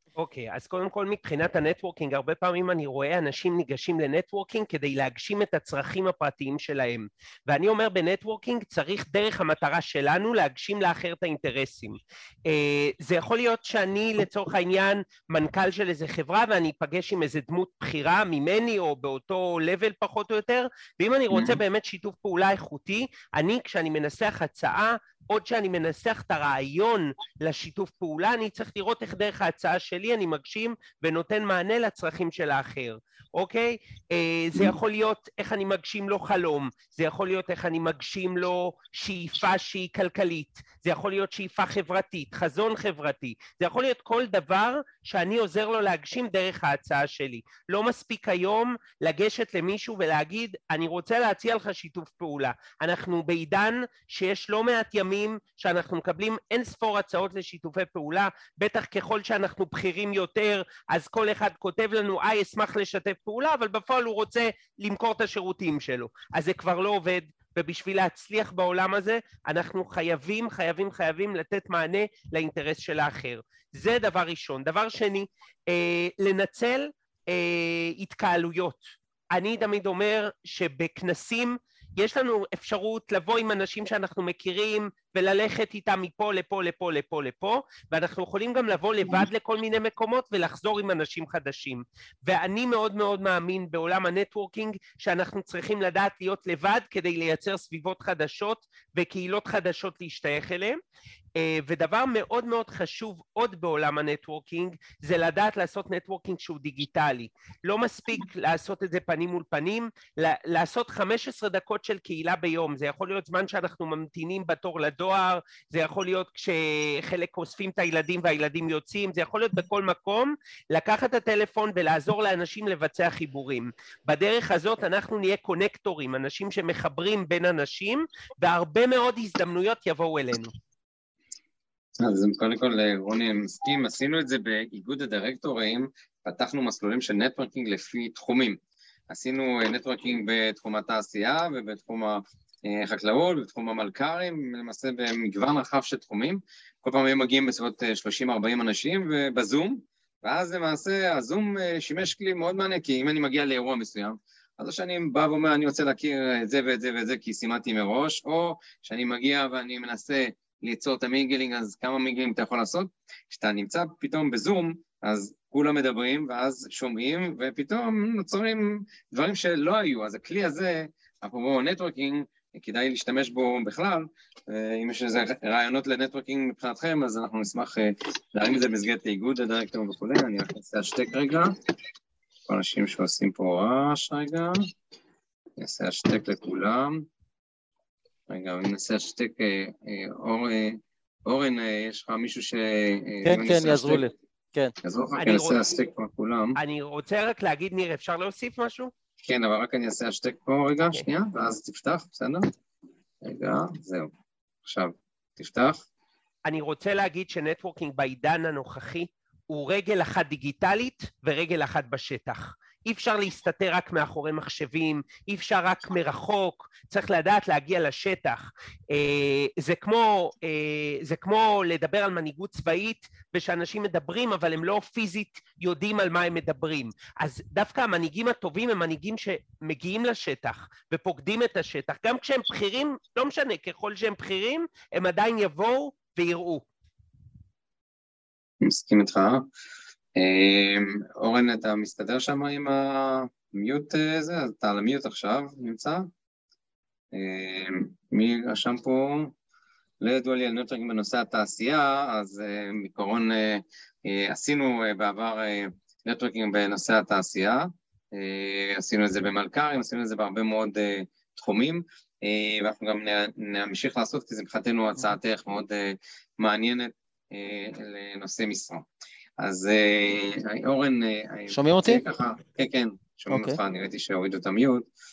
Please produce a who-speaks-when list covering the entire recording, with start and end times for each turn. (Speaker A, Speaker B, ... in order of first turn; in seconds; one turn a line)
Speaker A: 0.2-100.8
Speaker B: 21.3-21.6
Speaker A: 101.3-130.5
Speaker B: 132.0-138.6
Speaker B: 139.1-181.5
Speaker B: 182.5-184.6
Speaker B: 185.6-187.1
Speaker B: 188.3-194.0
Speaker C: 193.2-194.7
Speaker B: 194.8-196.6
Speaker A: 195.2-195.6
Speaker A: 196.6-198.9
Speaker B: 199.2-202.5
Speaker B: 203.2-204.1
Speaker B: 204.6-205.8
Speaker A: 206.4-236.6
Speaker B: 238.6-239.5
Speaker B: 240.2-246.1
Speaker B: 247.1-249.3
Speaker B: 250.0-268.9
Speaker B: 269.4-274.9
Speaker C: 271.5-272.0
Speaker C: 273.3-273.6